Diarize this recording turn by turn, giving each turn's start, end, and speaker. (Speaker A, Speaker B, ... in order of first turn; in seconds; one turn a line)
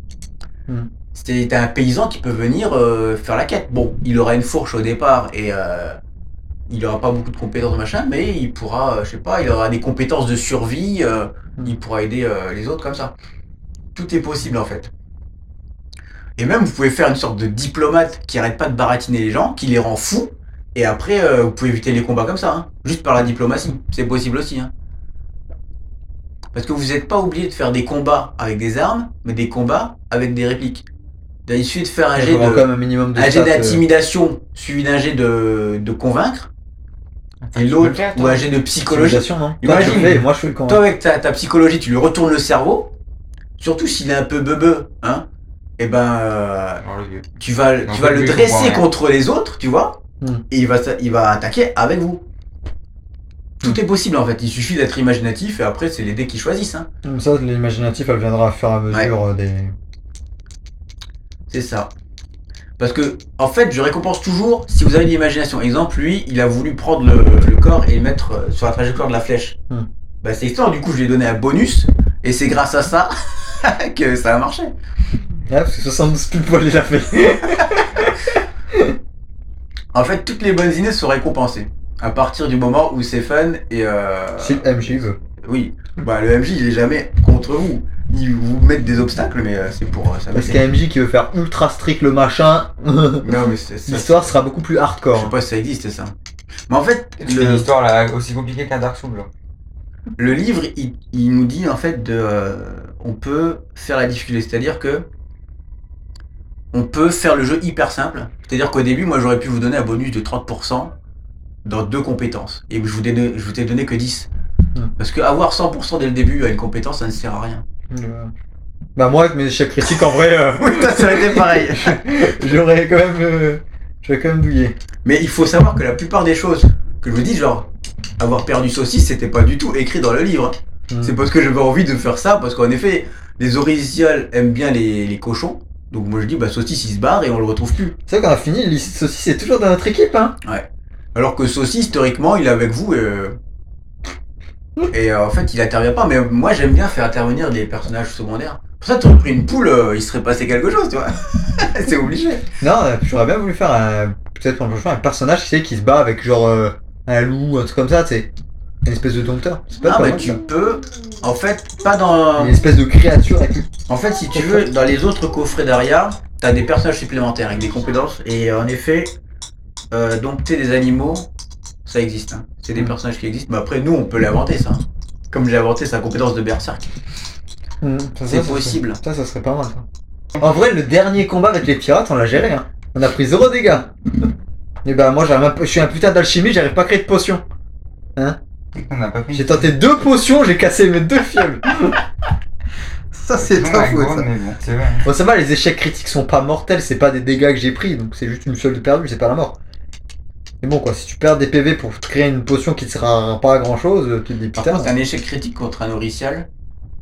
Speaker A: 1.1-6.0
Speaker A: 6.7-13.1
Speaker A: 13.9-14.9
Speaker A: 16.4-24.7
Speaker A: 26.5-30.9
Speaker A: 31.4-36.5
Speaker B: 32.1-33.8
Speaker C: 37.4-38.5
Speaker A: 37.5-42.9
Speaker B: 38.9-40.8
Speaker C: 39.7-40.2
Speaker A: 43.6-45.2
Speaker A: 45.8-46.8
Speaker C: 46.8-47.3
Speaker A: 47.4-50.0
Speaker C: 47.9-48.9
Speaker A: 50.5-52.2
Speaker A: 53.6-56.9
Speaker B: 57.0-59.7
Speaker A: 61.5-61.9
Speaker A: 62.8-69.6
Speaker A: 70.2-74.7
Speaker B: 75.5-79.0
Speaker A: 79.9-90.7
Speaker B: 84.4-85.2
Speaker B: 90.3-93.3
Speaker A: 93.2-94.3
Speaker B: 93.9-95.3
Speaker A: 95.1-96.1
Speaker A: 96.7-97.6
Speaker C: 97.2-99.3
Speaker A: 100.2-105.1
Speaker A: 106.7-110.9
Speaker A: 111.6-114.3
Speaker A: 115.0-117.6
Speaker B: 117.9-118.3
Speaker B: 119.0-124.8
Speaker A: 120.5-122.0
Speaker A: 125.0-137.9
Speaker B: 130.9-131.2
Speaker B: 138.1-140.3
Speaker A: 140.4-143.3
Speaker A: 144.9-152.4
Speaker B: 152.6-158.3
Speaker B: 158.8-160.4
Speaker A: 159.8-162.6
Speaker B: 162.4-163.7
Speaker A: 163.9-169.1
Speaker B: 164.3-164.7
Speaker A: 169.9-171.3
Speaker A: 171.8-176.9
Speaker B: 177.8-179.8
Speaker A: 178.3-179.0
Speaker B: 180.4-184.2
Speaker B: 184.8-187.4
Speaker C: 188.7-189.7
Speaker B: 189.3-192.0
Speaker B: 193.1-194.2
Speaker C: 193.4-195.1
Speaker B: 195.0-199.6
Speaker B: 200.6-204.9
Speaker A: 204.6-206.5